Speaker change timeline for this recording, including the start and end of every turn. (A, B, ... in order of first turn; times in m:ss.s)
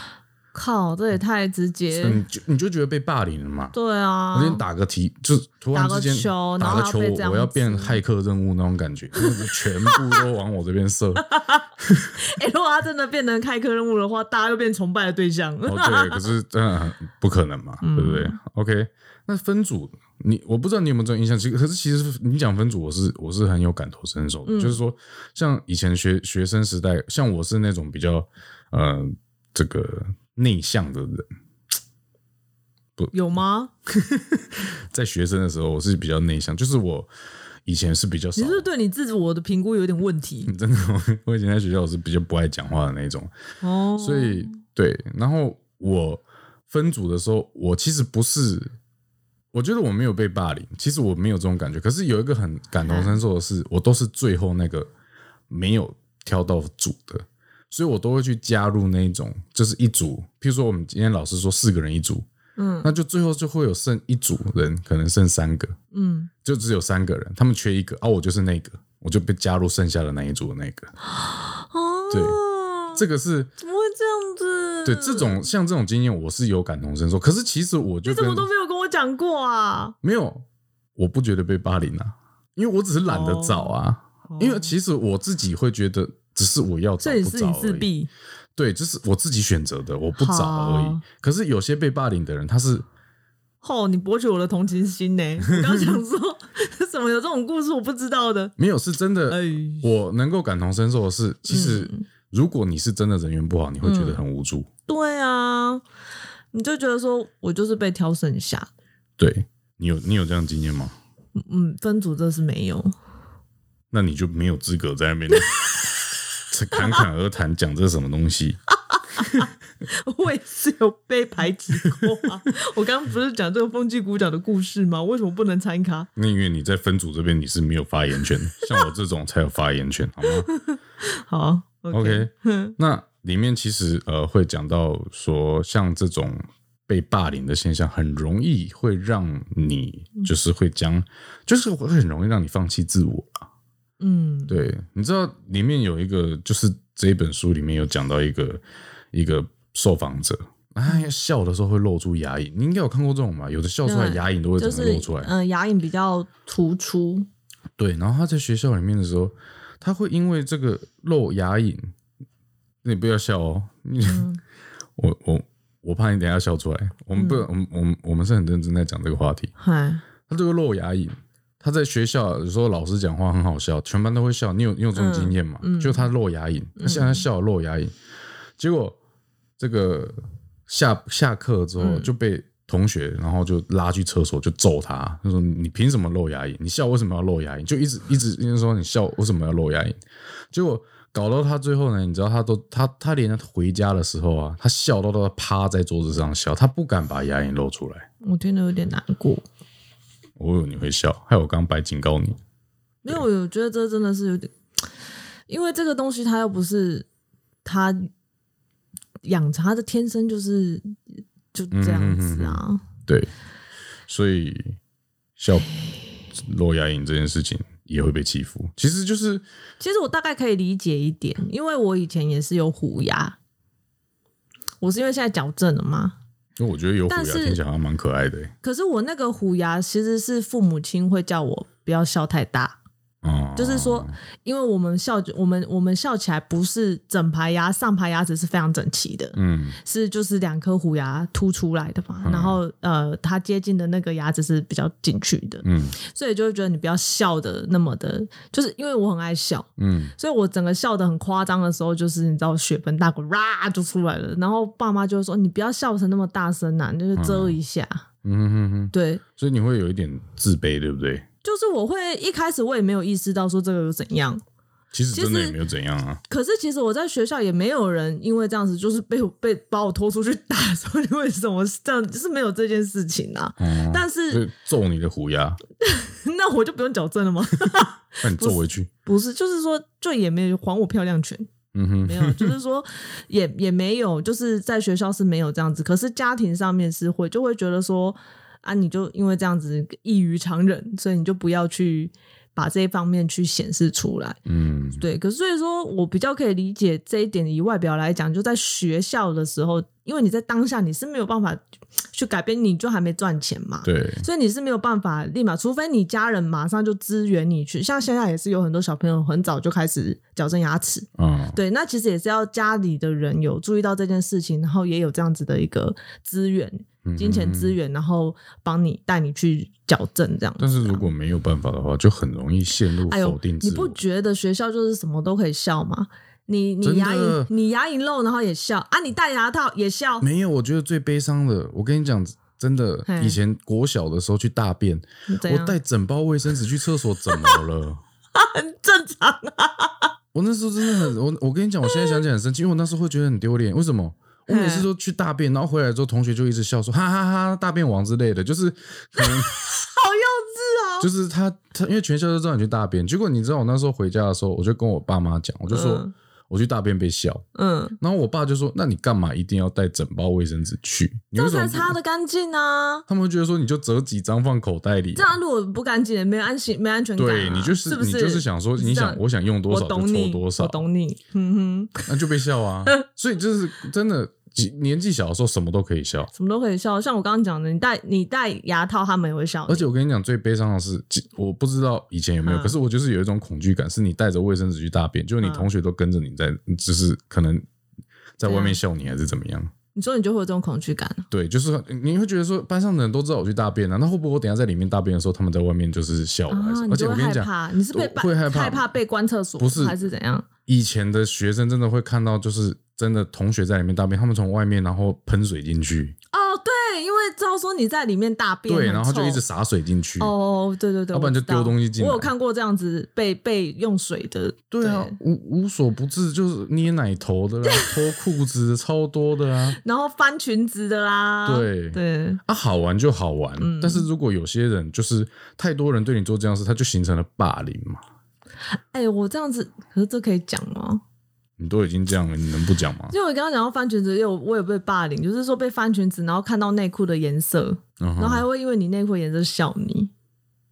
0:00.5-0:02.2 A
0:01.9-0:03.8 B
0:03.7-0:04.6 A
0:04.3-0:11.3 B
0:05.7-0:08.0 A
0:09.2-0:10.2 A
0:11.2-0:11.7 A
0:11.8-0:12.1 B
0:12.2-0:16.2 A
0:15.6-0:31.3 B
0:17.8-0:18.4 A
0:24.4-0:24.8 A
0:33.1-0:33.7 A
0:33.9-0:37.1 B
0:37.6-0:38.6 B
0:38.4-0:40.5 A
0:40.4-0:43.3 B
0:43.6-0:44.6 A
0:44.0-0:48.7 B
0:49.5-0:54.9 B
0:52.9-0:53.2 A
0:55.5-1:02.3 B
1:02.6-1:02.9 A
1:02.8-1:05.8 B
1:05.9-1:06.3 A
1:06.4-1:10.9 B
1:11.1-1:13.0 A
1:12.1-1:12.4 B
1:12.9-1:13.5 B
1:13.6-1:15.5 A
1:14.8-1:18.5 B
1:18.0-1:19.9 A
1:20.0-1:20.4 B
1:21.0-1:27.9 B
1:23.1-1:23.7 A
1:24.3-1:24.7 A
1:27.0-1:28.1 A
1:28.6-1:32.9 B
1:30.2-1:31.0 A
1:33.6-1:38.5 A
1:35.5-1:36.0 B
1:38.6-1:44.7 B
1:39.3-1:39.8 A
1:41.5-1:42.0 A
1:43.8-1:44.2 A
1:44.9-1:45.8 A
1:46.5-1:48.7 A
1:49.2-1:50.9 B
1:51.4-1:52.9 A
1:53.9-1:55.6 B
1:55.3-1:55.6 A
1:56.5-1:58.6 B
1:56.7-1:57.0 A
1:58.9-2:06.1 A
1:59.2-1:59.5 B
2:06.2-2:10.5 B
2:10.4-2:12.8 A
2:11.9-2:23.4 B
2:24.0-2:24.6 A
2:24.5-2:28.6 B
2:29.1-2:35.3 B
2:33.9-2:37.3 A
2:37.8-2:41.9 B
2:42.8-2:44.3 B
2:44.0-2:44.4 A
2:45.0-2:49.5 B
2:47.1-2:47.5 A
2:49.6-2:50.0 A
2:50.3-2:57.9 B
2:54.9-2:56.0 A
2:56.8-2:57.2 A
2:58.6-2:59.0 B
2:59.6-3:10.0 B
3:01.8-3:02.1 A
3:10.5-3:18.1 B
3:18.2-3:19.4 A
3:20.4-3:22.4 B
3:23.0-3:24.5 A
3:25.5-3:27.1 A
3:27.6-3:28.1 A
3:29.2-3:31.0 A
3:31.5-3:32.8 A
3:31.7-3:33.3 B
3:34.1-3:34.8 B
3:35.4-3:35.7 B
3:36.3-3:39.4 B
3:39.8-3:43.4 A
3:44.8-3:46.1 A
3:46.6-3:48.5 B
3:47.1-3:47.6 A
3:48.6-3:52.8 A
3:53.2-3:54.2 B
3:53.6-4:18.0 A
3:59.4-3:59.8 B
4:02.2-4:02.6 B
4:05.6-4:06.0 B
4:09.8-4:10.1 B
4:17.1-4:17.6 B
4:18.2-4:21.3 B
4:18.9-4:19.2 A
4:21.4-4:24.4 A
4:24.9-4:26.2 B
4:25.1-4:25.6 A
4:26.3-4:34.4 A
4:33.6-4:35.6 B
4:35.8-4:41.5 A
4:38.2-4:38.9 B
4:41.7-4:42.6 B
4:42.0-4:54.4 A
4:54.4-4:55.0 B
4:55.0-5:01.6 A
5:02.1-5:21.1 A
5:03.8-5:04.2 B
5:11.2-5:11.6 B
5:17.0-5:17.8 B
5:20.6-5:24.0 B
5:23.1-5:30.3 A
5:26.8-5:27.5 B
5:30.2-5:38.0 B
5:33.1-5:33.4 A
5:35.3-5:35.8 A
5:37.3-5:37.6 A
5:38.4-5:40.1 A
5:40.3-5:49.6 B
5:41.9-5:42.2 A
5:44.5-5:44.9 A
5:49.2-5:51.1 A
5:51.0-5:57.4 B
5:55.7-5:56.1 A
5:57.6-5:58.0 A
5:58.0-6:02.0 B
6:01.4-6:03.1 A
6:03.1-6:05.3 B
6:05.1-6:12.0 A
6:07.2-6:10.8 B
6:12.1-6:16.3 B
6:16.3-6:19.9 A
6:19.7-6:27.6 B
6:22.4-6:22.8 A
6:25.4-6:25.7 A
6:28.4-6:29.7 B
6:28.4-6:28.8 A
6:29.9-6:31.3 A
6:31.3-6:38.9 B
6:36.5-6:40.5 A
6:39.6-6:40.0 B
6:40.6-6:46.2 B
6:46.3-6:49.4 A
6:48.7-6:50.3 B
6:50.2-6:55.2 A
6:51.1-6:52.3 B
6:54.7-6:59.8 B
6:57.6-6:58.0 A
6:59.7-7:02.4 A
7:01.4-7:08.0 B
7:03.6-7:04.1 A
7:08.9-7:11.0 A
7:11.6-7:13.1 B
7:13.1-7:20.1 A
7:18.0-7:18.4 B